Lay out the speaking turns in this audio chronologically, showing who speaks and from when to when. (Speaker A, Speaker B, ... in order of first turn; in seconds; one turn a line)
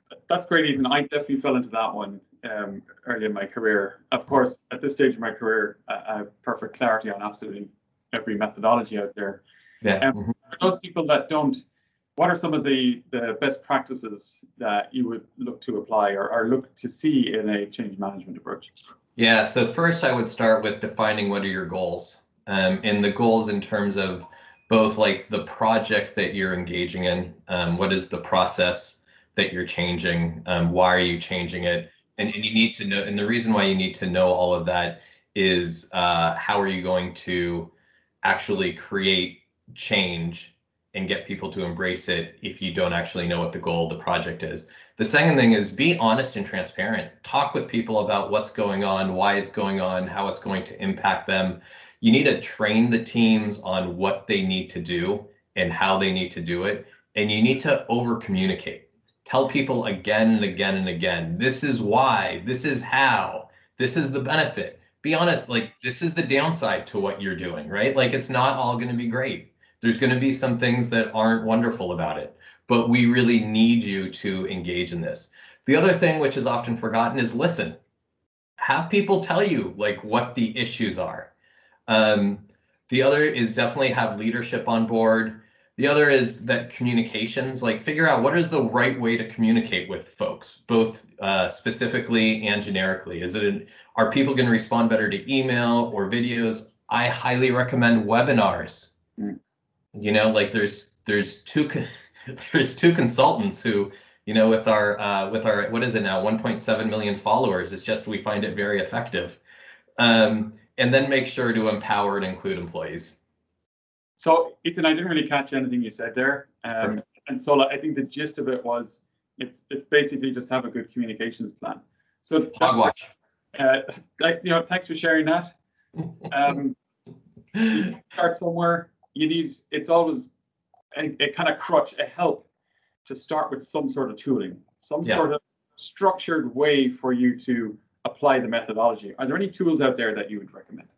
Speaker A: 0.3-9.4
Speaker B: 9.8-10.3
Speaker A: 10.0-11.6
Speaker A: 12.2-18.7
Speaker B: 19.1-37.7
Speaker B: 38.2-77.8
Speaker B: 78.6-81.3
Speaker B: 81.9-98.9
Speaker B: 99.9-109.4
Speaker B: 110.0-113.2
Speaker A: 114.2-125.5
Speaker B: 122.6-123.1
Speaker A: 126.3-126.8
Speaker A: 127.7-130.3
Speaker A: 130.9-132.4
Speaker A: 133.0-140.9